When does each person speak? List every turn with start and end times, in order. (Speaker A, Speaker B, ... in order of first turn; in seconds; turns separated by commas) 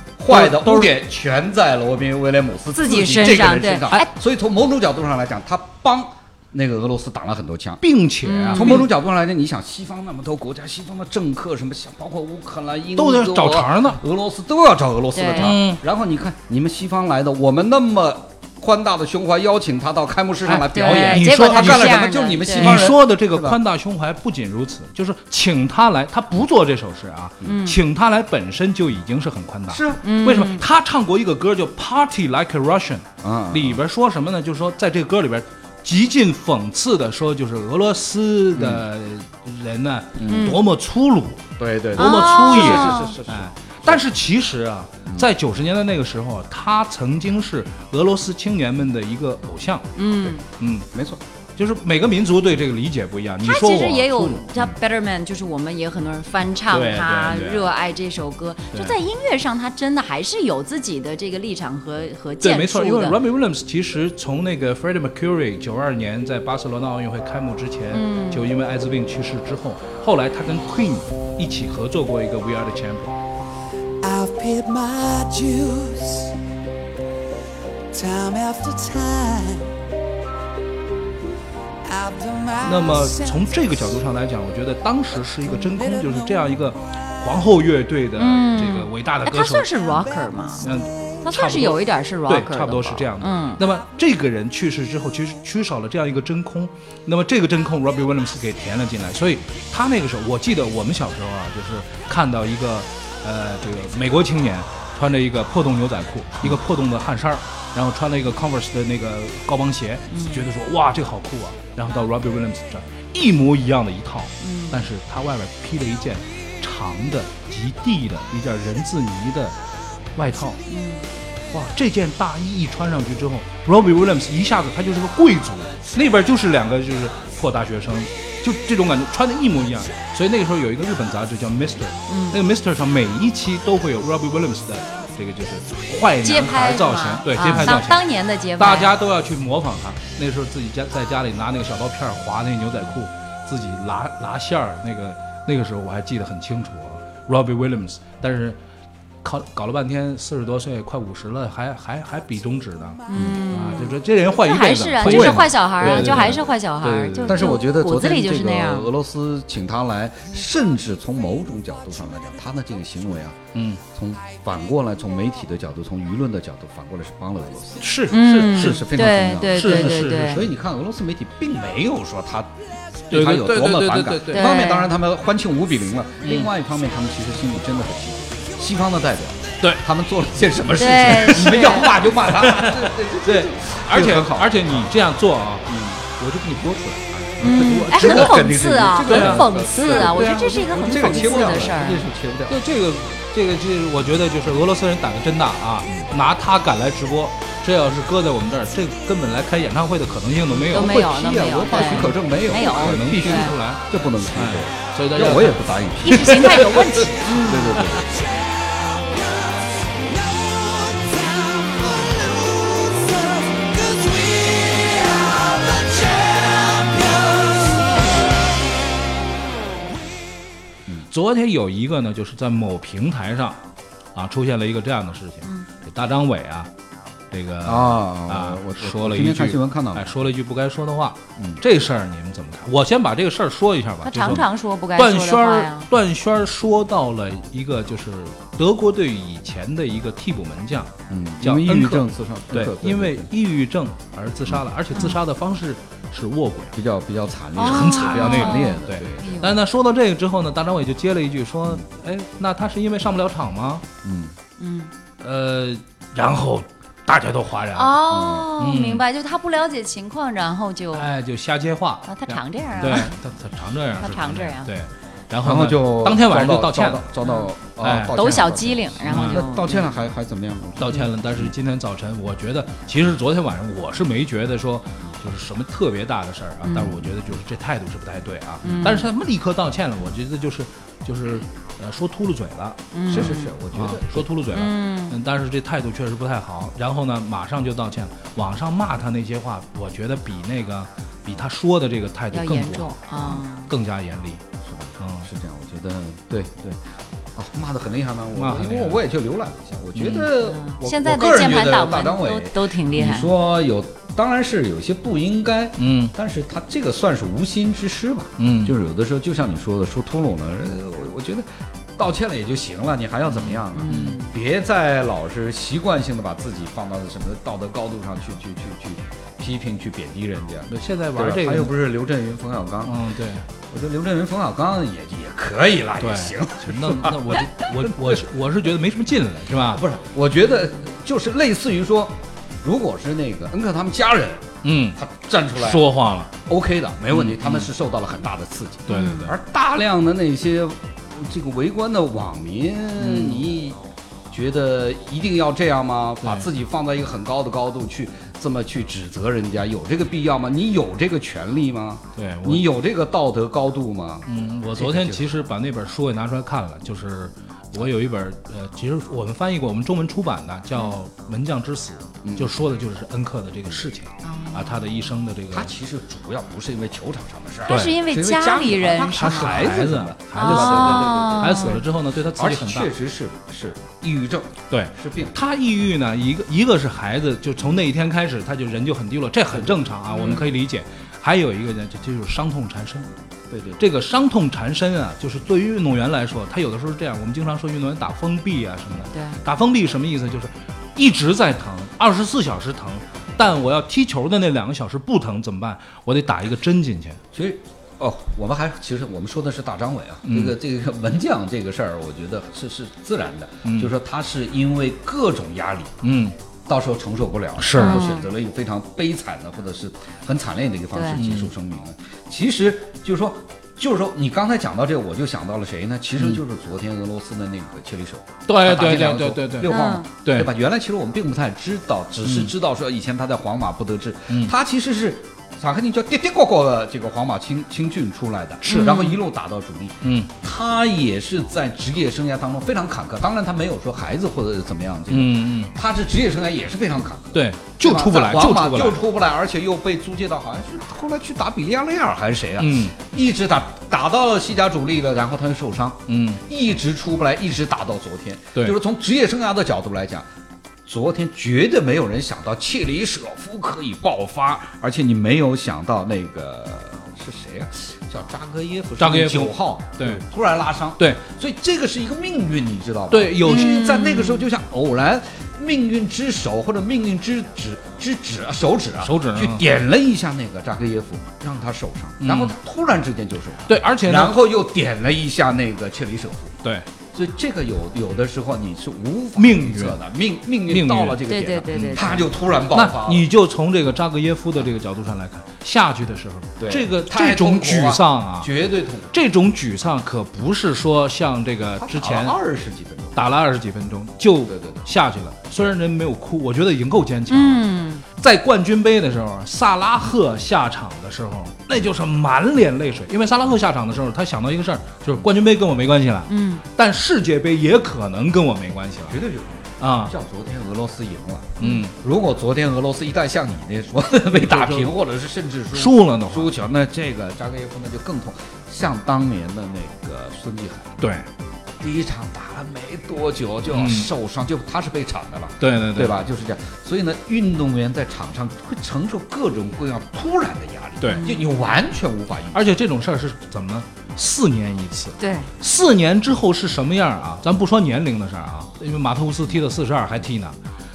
Speaker A: 0.2-7.8, Speaker B: 0.3-0.9, Speaker C: 2.7-4.1, Speaker B: 7.8-8.9, Speaker C: 8.2-8.8, Speaker A: 8.5-23.6, Speaker B: 12.9-14.0, Speaker C: 15.1-15.6, Speaker B: 15.3-15.8, Speaker B: 20.4-22.0, Speaker C: 20.7-22.8, Speaker B: 22.5-49.9, Speaker C: 27.4-27.8, Speaker A: 29.7-30.1, Speaker C: 30.0-30.6, Speaker A: 33.2-33.8, Speaker A: 38.5-38.8, Speaker A: 40.1-40.6, Speaker C: 40.3-40.6, Speaker A: 41.6-44.0, Speaker C: 42.0-43.1, Speaker C: 50.0-50.4, Speaker B: 50.6-50.9, Speaker A: 50.9-51.2, Speaker B: 51.5-54.4, Speaker C: 53.4-63.2, Speaker B: 56.7-57.7, Speaker B: 62.4-73.1, Speaker C: 67.9-68.5, Speaker D: 74.0-76.3, Speaker D: 77.9-79.8, Speaker D: 81.8-83.9, Speaker B: 82.6-89.8, Speaker D: 85.5-86.5, Speaker C: 88.2-90.7, Speaker B: 90.6-119.5, Speaker C: 91.2-93.6, Speaker C: 110.1-110.4, Speaker C: 114.4-114.8, Speaker B: 120.1-120.6, Speaker C: 120.7-121.1, Speaker B: 121.5-138.0, Speaker C: 132.1-132.4, Speaker C: 136.2-138.9, Speaker B: 138.6-148.6, Speaker B: 149.2-157.6, Speaker C: 153.1-158.9, Speaker A: 153.1-153.4, Speaker A: 155.0-184.9, Speaker B: 163.5-163.8, Speaker B: 167.8-168.8, Speaker C: 168.1-170.4, Speaker B: 169.5-170.4, Speaker B: 173.1-174.5, Speaker C: 174.3-174.9, Speaker B: 176.2-176.5, Speaker C: 180.7-181.9, Speaker B: 181.2-188.4, Speaker A: 185.7-186.0, Speaker A: 187.2-192.6, Speaker C: 187.4-192.1, Speaker B: 189.1-191.8, Speaker B: 192.5-201.0, Speaker C: 200.6-203.5, Speaker A: 200.6-208.2, Speaker B: 201.7-205.7, Speaker C: 206.0-207.9, Speaker B: 221.1-223.6, Speaker B: 224.1-226.7, Speaker B: 227.3-246.8, Speaker A: 227.6-230.2, Speaker C: 234.1-235.9, Speaker A: 241.1-243.3, Speaker C: 244.9-245.2, Speaker A: 246.7-249.5, Speaker C: 247.6-249.5, Speaker B: 247.6-253.8, Speaker A: 254.0-254.3, Speaker C: 254.6-254.9, Speaker B: 255.2-258.0, Speaker C: 257.7-261.1, Speaker A: 258.1-258.5, Speaker B: 258.6-259.0, Speaker B: 260.9-267.1, Speaker C: 262.1-263.1, Speaker C: 264.0-264.7, Speaker A: 265.4-271.5, Speaker C: 267.2-267.5, Speaker B: 267.8-268.2, Speaker C: 268.1-269.9, Speaker B: 269.0-269.4, Speaker B: 270.8-294.4, Speaker A: 276.7-277.2, Speaker A: 278.6-279.0, Speaker C: 278.6-279.1, Speaker C: 282.9-283.5, Speaker A: 283.1-284.3, Speaker C: 284.5-285.2, Speaker C: 292.3-293.7, Speaker A: 294.6-323.0, Speaker B: 295.0-295.3, Speaker B: 298.3-299.0, Speaker B: 299.9-300.3, Speaker C: 300.4-303.3, Speaker B: 305.8-306.1, Speaker B: 308.4-308.7, Speaker B: 313.3-314.2, Speaker C: 313.7-314.3, Speaker B: 320.7-321.7, Speaker B: 322.8-323.4, Speaker A: 323.7-328.2, Speaker B: 326.0-329.8, Speaker A: 329.7-335.9, Speaker B: 334.6-335.0, Speaker B: 335.5-336.3, Speaker A: 336.4-355.3, Speaker B: 337.1-337.7, Speaker B: 338.9-339.3, Speaker C: 338.9-339.3, Speaker B: 343.0-343.4, Speaker B: 346.2-346.5, Speaker B: 352.1-352.7, Speaker B: 354.3-365.7, Speaker A: 362.2-362.6, Speaker C: 364.2-365.0, Speaker A: 365.5-375.4, Speaker B: 367.7-367.9, Speaker C: 367.7-369.7, Speaker B: 369.1-372.9, Speaker C: 370.4-371.8, Speaker B: 374.7-383.1, Speaker A: 379.5-380.5, Speaker C: 380.1-380.5, Speaker A: 383.5-383.8, Speaker B: 383.8-397.2, Speaker C: 389.1-389.4, Speaker A: 397.3-405.9, Speaker B: 400.2-400.6, Speaker B: 403.6-403.9, Speaker B: 406.0-406.3, Speaker A: 406.7-450.3, Speaker B: 407.6-408.0, Speaker C: 407.8-408.3, Speaker C: 410.9-411.2, Speaker B: 411.1-411.5, Speaker B: 418.5-420.5, Speaker C: 419.7-420.1, Speaker B: 422.2-422.5, Speaker B: 428.6-429.1, Speaker C: 428.7-429.2, Speaker B: 430.0-430.3, Speaker B: 435.1-435.7, Speaker B: 437.3-439.0, Speaker B: 442.6-442.9, Speaker B: 446.1-446.4, Speaker A: 450.9-476.6, Speaker B: 459.0-460.2, Speaker B: 463.1-463.8, Speaker C: 463.4-464.4, Speaker B: 469.0-469.6, Speaker B: 472.2-472.5, Speaker B: 473.7-474.4, Speaker A: 477.1-483.3, Speaker B: 479.4-480.0, Speaker B: 480.7-488.5, Speaker C: 481.2-482.2, Speaker A: 486.6-489.1, Speaker B: 489.1-492.4, Speaker A: 491.8-493.2, Speaker B: 493.1-497.6, Speaker A: 494.5-494.9, Speaker C: 497.3-498.0, Speaker B: 498.2-509.2, Speaker C: 506.3-506.6, Speaker A: 509.1-521.0, Speaker B: 509.8-510.1, Speaker C: 511.6-511.9, Speaker B: 511.6-511.9, Speaker B: 514.3-514.9, Speaker B: 515.7-516.5, Speaker B: 521.0-521.3, Speaker A: 521.8-532.8, Speaker B: 523.7-524.1, Speaker B: 525.6-526.2, Speaker B: 531.0-531.3, Speaker C: 531.1-531.5, Speaker B: 532.5-540.6, Speaker C: 535.2-535.5